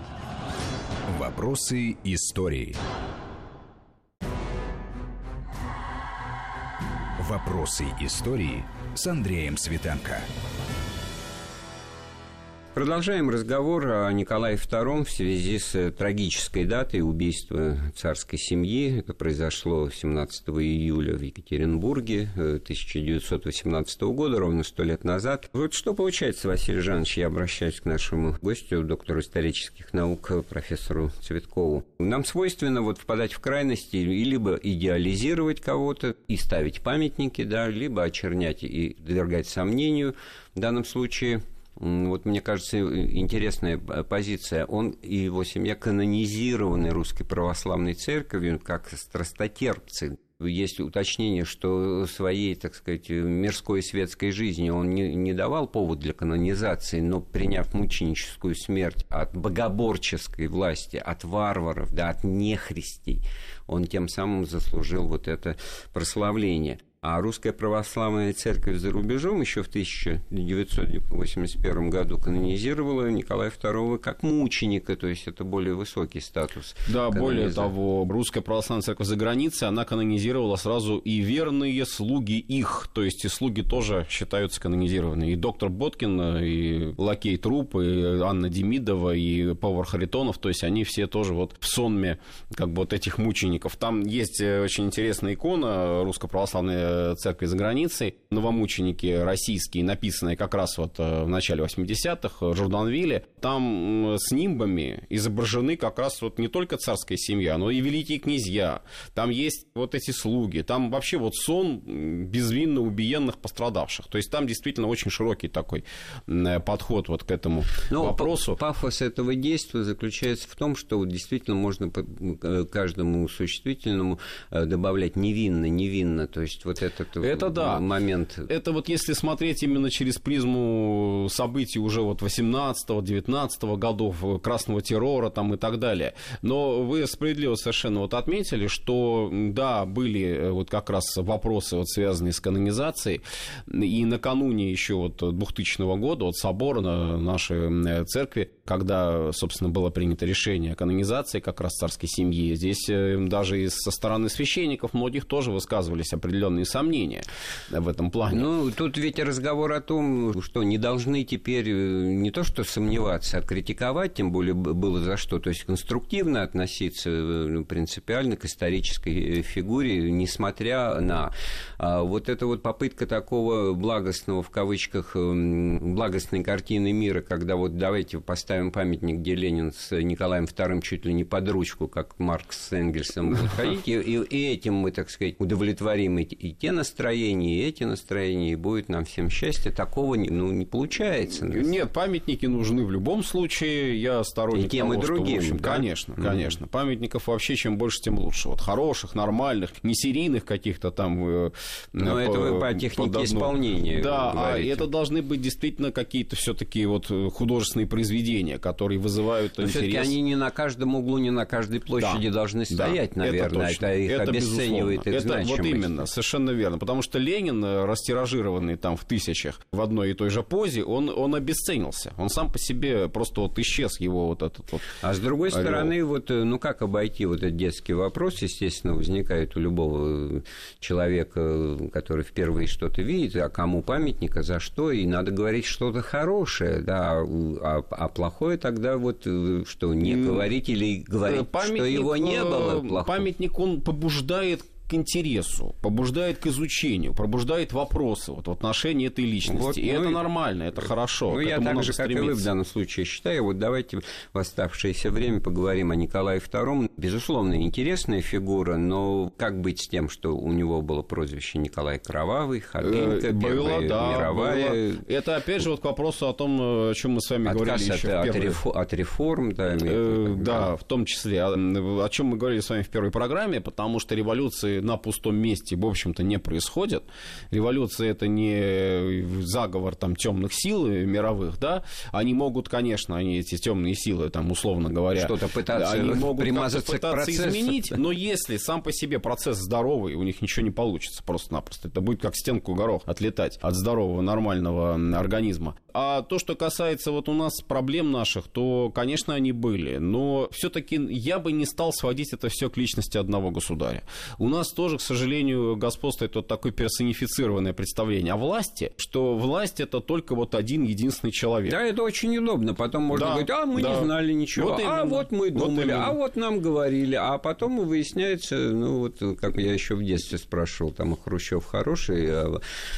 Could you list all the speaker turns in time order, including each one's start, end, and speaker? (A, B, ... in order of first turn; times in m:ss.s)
0:01.1-0:02.8 A
0:07.2-0:10.3 A
0:12.7-1:17.7 B
1:16.9-1:58.6 C
1:57.9-2:08.5 B
2:07.2-2:07.8 C
2:08.5-2:38.5 C
2:38.3-3:11.7 B
3:11.4-3:30.1 C
3:14.5-3:16.5 B
3:22.0-3:24.9 B
3:29.6-3:35.9 B
3:32.0-3:44.9 C
3:45.0-4:03.3 B
3:45.5-3:45.9 C
4:00.0-4:00.5 C
4:01.2-4:12.5 C
4:09.4-4:10.3 B
4:10.8-4:25.0 B
4:22.8-4:28.6 C
4:27.4-4:30.7 B
4:29.7-5:11.8 C
4:45.1-4:48.0 B
5:11.6-5:22.6 B
5:13.1-5:16.2 C